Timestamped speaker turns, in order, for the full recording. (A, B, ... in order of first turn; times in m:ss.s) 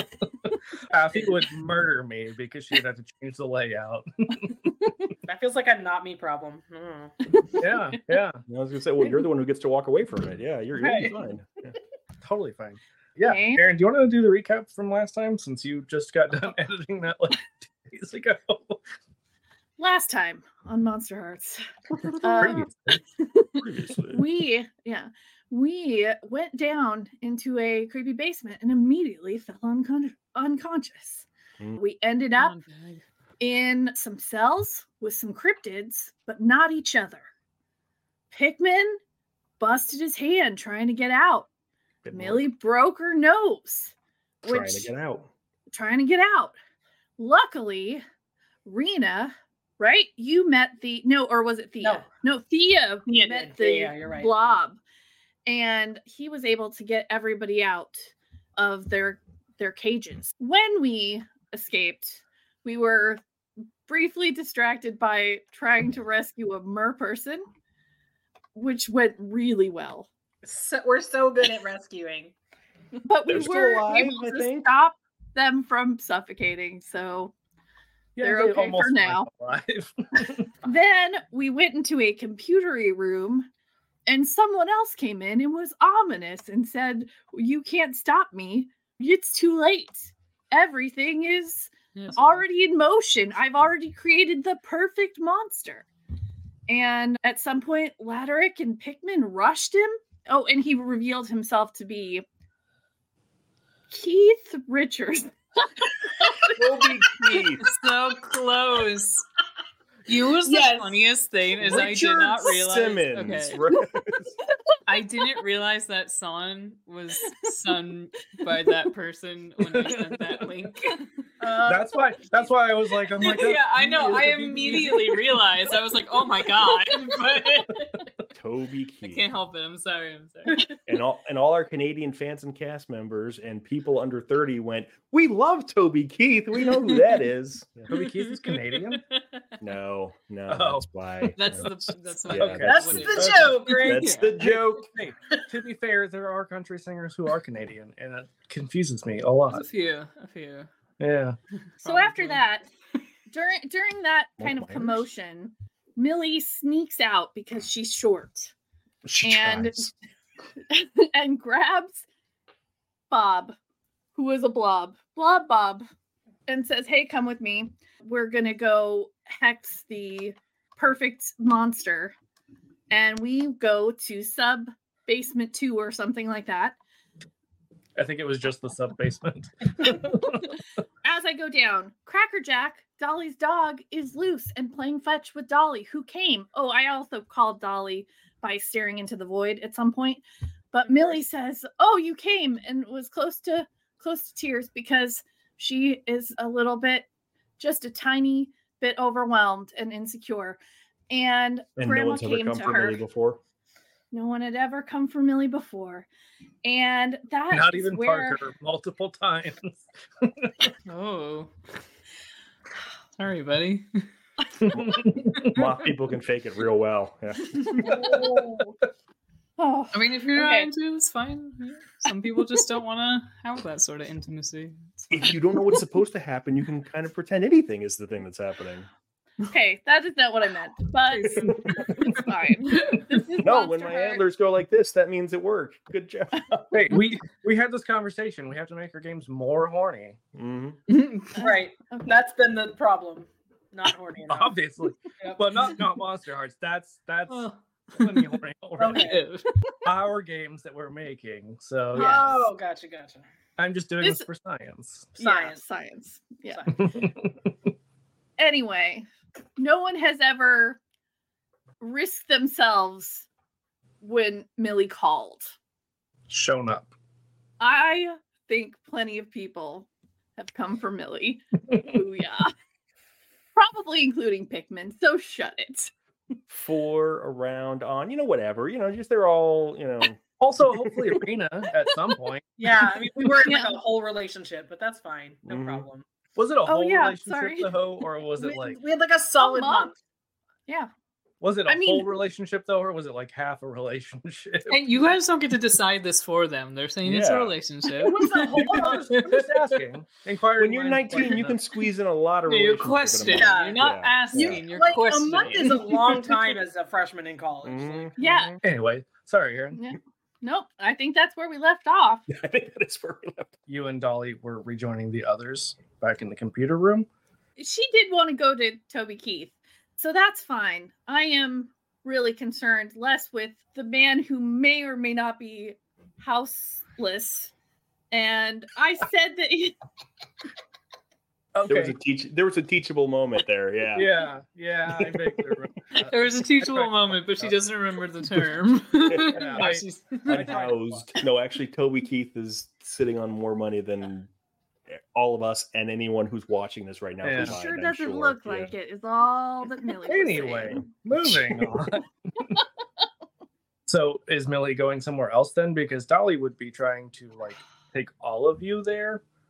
0:00.9-0:04.6 A
0:05.2-0:07.2 B
0:07.3-0:07.8 C
0:07.6-0:08.4 A
0:08.5-0:11.7 D
0:10.8-0:11.2 B
0:12.2-0:18.8 A
0:13.2-0:13.6 C
0:19.8-0:31.3 C
0:22.3-0:23.0 A
0:22.4-0:22.6 D
0:23.6-0:24.2 D
0:31.8-0:32.6 C
0:32.4-0:33.0 E
0:33.4-0:37.3 C
0:38.3-0:39.0 C
0:39.6-0:41.5 C
0:42.0-0:42.4 D
0:42.1-0:44.9 C
0:44.4-0:45.3 D
0:45.7-0:46.6 C
0:47.2-0:48.0 C
0:48.7-0:54.8 C
0:53.1-0:54.5 B
0:55.5-1:03.2 C
1:03.9-1:07.4 C
1:08.6-1:10.1 C
1:10.4-1:12.3 B
1:13.0-1:17.3 C
1:13.3-1:14.7 D
1:18.2-1:20.4 A
1:18.2-1:19.3 C
1:20.6-1:23.5 C
1:24.1-1:35.9 C
1:32.0-1:32.4 E
1:36.7-1:42.2 C
1:43.9-1:47.5 C
1:46.6-1:47.7 D
1:47.6-1:49.2 E
1:50.1-1:53.6 E
1:50.4-1:51.0 B
1:51.6-1:54.3 D
1:54.9-2:01.0 E
1:59.7-2:00.4 A
2:01.4-2:02.5 B
2:01.7-2:05.4 A
2:03.1-2:08.1 E
2:08.3-2:09.3 D
2:09.0-2:10.8 E
2:10.9-2:17.9 D
2:17.9-2:19.0 A
2:17.9-2:19.6 E
2:19.6-2:21.7 D
2:20.5-2:23.6 A
2:21.4-2:24.5 E
2:22.3-2:24.9 D
2:22.6-2:24.2 B
2:24.4-2:29.7 A
2:25.0-2:25.5 B
2:29.5-2:30.7 E
2:31.0-2:31.4 A
2:31.8-2:32.4 E
2:31.8-2:32.7 C
2:33.3-2:38.5 C
2:34.4-2:35.0 D
2:39.1-2:39.9 D
2:39.2-2:39.8 C
2:40.7-2:42.0 C
2:43.1-2:43.6 C
2:44.2-2:45.9 C
2:46.5-2:52.1 C
2:52.9-2:56.8 C
2:58.0-3:00.5 A
3:01.0-3:17.1 C
3:10.9-3:11.2 B
3:17.6-3:23.0 C
3:21.8-3:23.4 D
3:24.1-3:26.1 C
3:26.6-3:28.4 C
3:27.5-3:30.7 A
3:30.9-3:31.5 E
3:33.2-3:34.1 E
3:34.6-3:35.6 A
3:34.7-3:38.0 D
3:37.6-3:38.7 C
3:38.0-3:38.6 A
3:39.6-3:40.7 C
3:39.9-3:45.8 E
3:45.1-3:48.9 D
3:49.5-3:54.2 C
3:51.1-3:52.2 E
3:52.7-3:53.0 E
3:53.4-3:57.0 D
3:56.7-4:00.2 A
4:00.4-4:00.8 D
4:00.9-4:01.5 E
4:01.4-4:02.1 C
4:01.4-4:04.5 B
4:04.3-4:09.1 A
4:05.2-4:05.5 B
4:07.3-4:08.4 E
4:08.8-4:09.2 B
4:08.9-4:09.9 E
4:09.8-4:12.4 A
4:11.9-4:13.2 B
4:12.0-4:12.4 C
4:13.6-4:15.2 A
4:14.0-4:14.3 C
4:15.2-4:15.6 B
4:15.2-4:16.6 C
4:16.5-4:16.9 B
4:16.8-4:17.3 A
4:18.4-4:19.1 C
4:19.6-4:20.8 C
4:21.8-4:23.3 C
4:24.0-4:25.5 C
4:26.3-4:26.9 A
4:27.6-4:32.5 C
4:33.6-4:35.9 C
4:36.5-4:41.2 D
4:40.4-4:42.4 A
4:42.6-4:46.0 B
4:43.4-4:43.8 C
4:45.5-4:45.9 D
4:46.4-4:48.8 A
4:46.7-4:47.7 C
4:48.4-4:50.0 B
4:49.4-4:49.9 C
4:51.4-4:54.8 A
4:51.7-4:52.1 C
4:54.7-4:59.5 E
4:57.0-4:57.6 D
4:58.0-4:59.1 B
4:58.2-5:01.5 A
5:00.6-5:04.6 D
5:02.5-5:06.2 E
5:03.3-5:03.8 B
5:04.3-5:08.1 B
5:07.6-5:08.6 D
5:08.2-5:08.5 C
5:08.6-5:09.8 A
5:09.7-5:12.3 C
5:12.3-5:13.5 D
5:13.7-5:17.1 A
5:17.6-5:27.5 C
5:28.1-5:29.8 C
5:31.6-5:32.0 A
5:31.7-5:34.1 D
5:33.9-5:37.6 A
5:36.0-5:40.6 E
5:39.1-5:39.4 D
5:39.3-5:40.7 A
5:40.3-5:44.3 D
5:40.3-5:41.0 B
5:45.0-5:48.7 D
5:47.2-5:47.6 A
5:47.4-5:50.9 C
5:50.1-5:52.6 A
5:53.9-5:59.2 A